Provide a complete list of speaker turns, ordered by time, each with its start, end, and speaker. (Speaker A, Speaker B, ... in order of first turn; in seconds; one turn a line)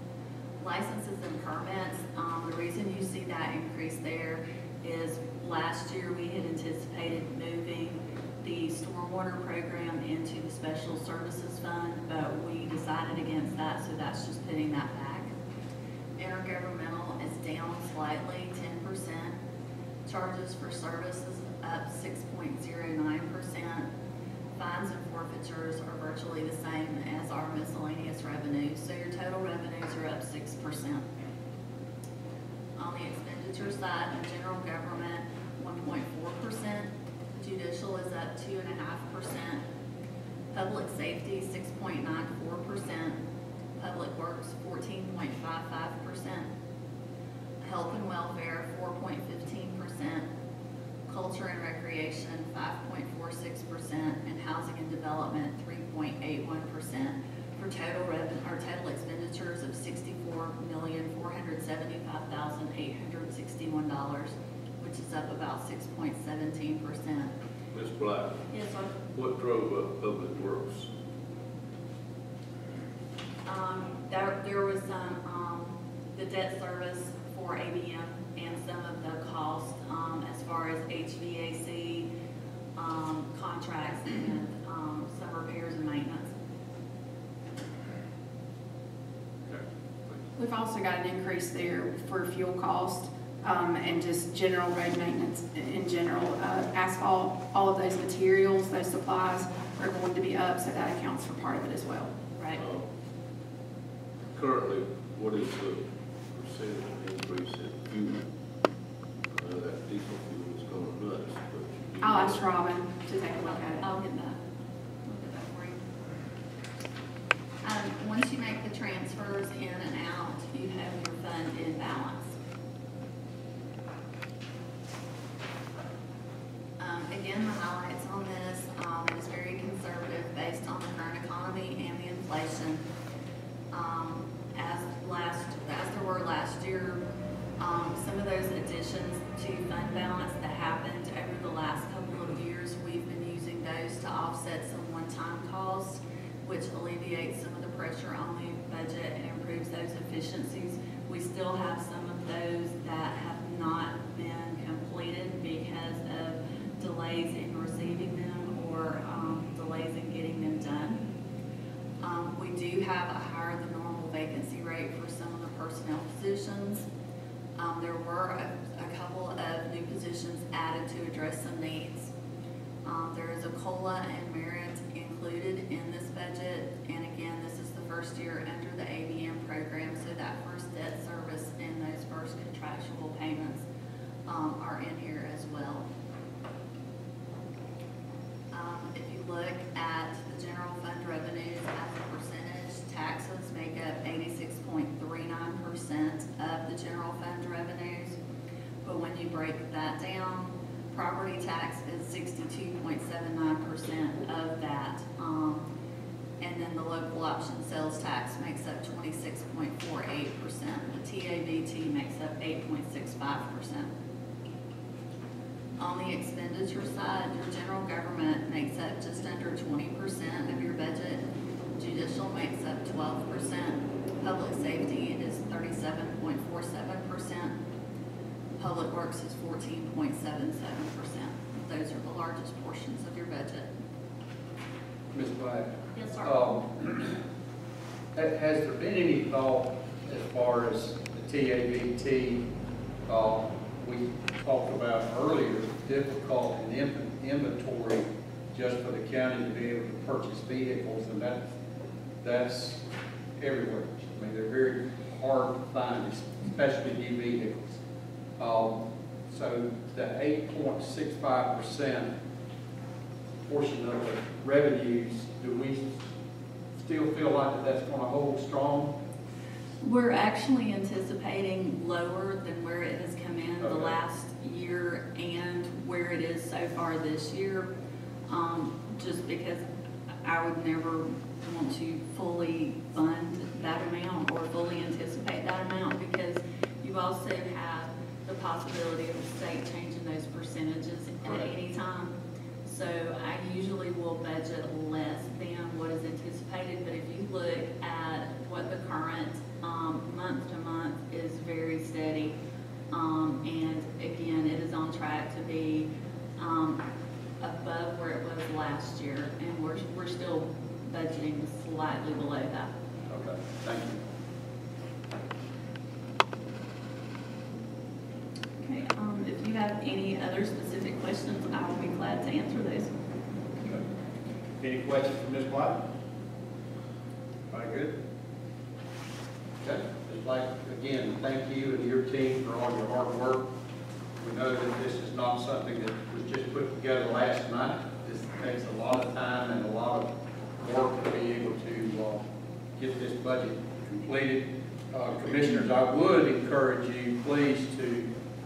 Speaker A: 0.6-15.3
Speaker A: 16.2-19.4
Speaker A: 20.1-23.9
Speaker A: 24.6-31.0
Speaker A: 32.8-39.6
Speaker A: 40.5-43.2
Speaker A: 43.8-46.5
Speaker A: 47.6-50.2
Speaker A: 51.1-67.3
Speaker B: 67.7-68.4
Speaker A: 68.5-68.9
Speaker B: 69.1-70.9
Speaker A: 73.5-82.1
Speaker A: 82.8-86.3
Speaker C: 90.4-102.1
Speaker B: 102.5-102.8
Speaker B: 104.3-108.2
Speaker B: 109.3-112.5
Speaker C: 112.0-113.8
Speaker A: 113.4-114.4
Speaker A: 115.0-115.8
Speaker A: 117.6-122.3
Speaker A: 126.8-132.8
Speaker A: 133.7-137.0
Speaker A: 137.6-161.0
Speaker A: 162.0-166.8
Speaker A: 167.6-172.1
Speaker A: 172.8-183.7
Speaker A: 184.3-185.9
Speaker A: 188.5-198.2
Speaker A: 198.8-205.7
Speaker A: 206.4-213.9
Speaker A: 215.8-221.2
Speaker A: 221.8-227.5
Speaker A: 228.6-233.7
Speaker D: 235.1-235.7
Speaker A: 235.9-236.3
Speaker D: 236.2-237.2
Speaker D: 238.1-242.4
Speaker D: 243.1-251.5
Speaker D: 252.2-252.8
Speaker D: 253.4-257.8
Speaker D: 258.4-262.1
Speaker D: 263.4-266.0
Speaker D: 266.8-268.9
Speaker A: 269.8-277.7
Speaker D: 273.6-273.9
Speaker A: 278.3-279.6
Speaker A: 280.2-302.3
Speaker A: 302.9-306.8
Speaker A: 307.4-312.7
Speaker D: 313.1-314.0
Speaker A: 318.6-322.9
Speaker D: 324.6-325.8
Speaker D: 327.5-327.9
Speaker D: 329.6-333.4
Speaker D: 334.2-340.1
Speaker D: 340.6-342.2
Speaker D: 342.8-348.1